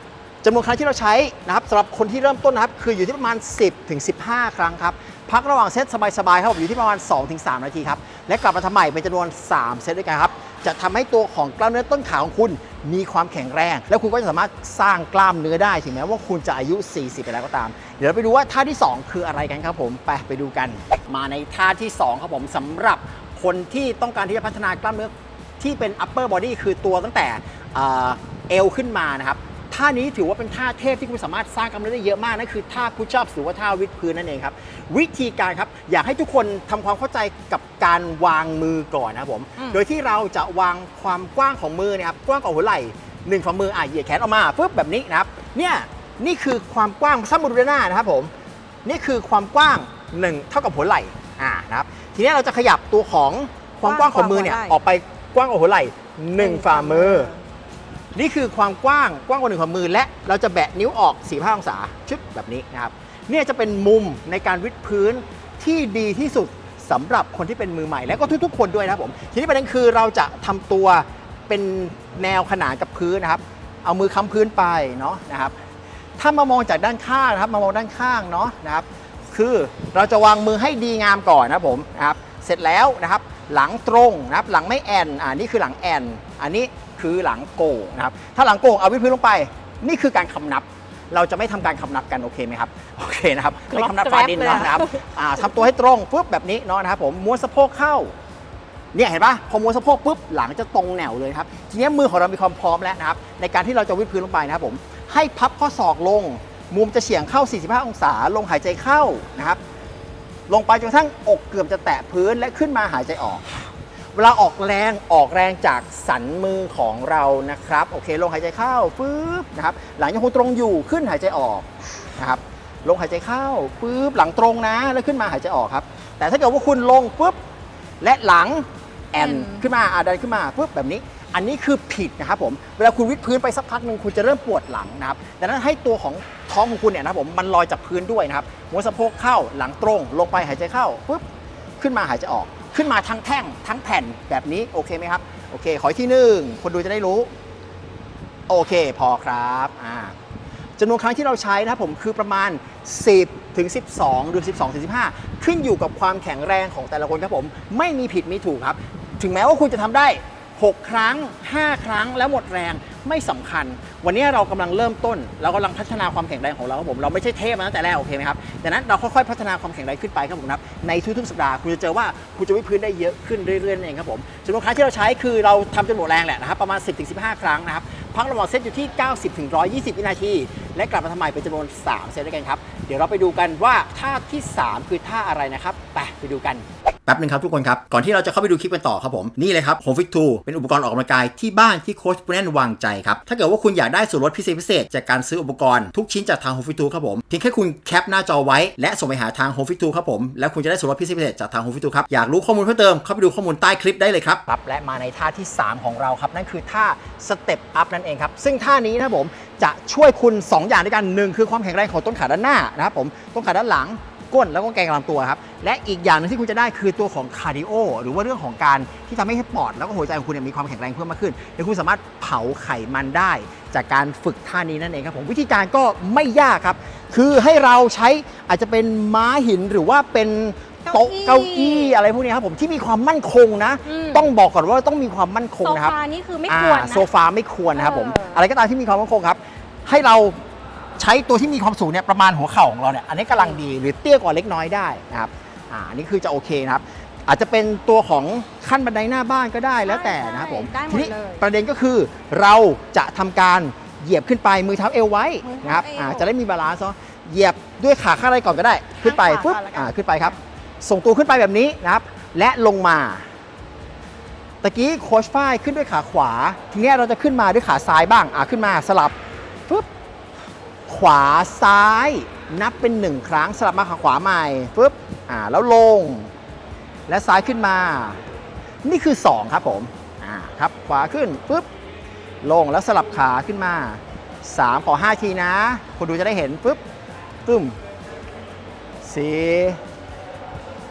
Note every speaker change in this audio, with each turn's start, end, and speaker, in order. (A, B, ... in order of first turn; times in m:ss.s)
0:00.4-0:48.3 A
0:48.8-0:57.3 A
0:53.8-0:54.8 B
0:56.4-0:57.4 B
0:58.2-1:15.6 A
1:16.2-1:38.1 A
1:33.7-1:35.0 B
1:38.9-1:49.6 A
1:50.5-1:53.6 A
1:54.1-2:07.4 A
2:08.0-2:21.2 A
2:21.8-2:27.3 A
2:28.5-2:30.2 A
2:30.8-3:56.0 A
3:50.9-3:52.0 B
3:53.9-3:54.3 B
3:55.6-3:57.1 B
3:56.5-4:00.4 A
3:57.8-3:58.4 B
4:01.0-4:23.2 A
4:09.8-4:11.4 B
4:15.4-4:16.3 B
4:19.0-4:20.3 B
4:24.6-4:29.2 A
4:30.9-4:36.3 A
4:37.1-4:38.2 A
4:38.8-4:41.7 A
4:42.4-4:46.8 A
4:47.4-4:47.8 A
4:49.0-4:49.8 A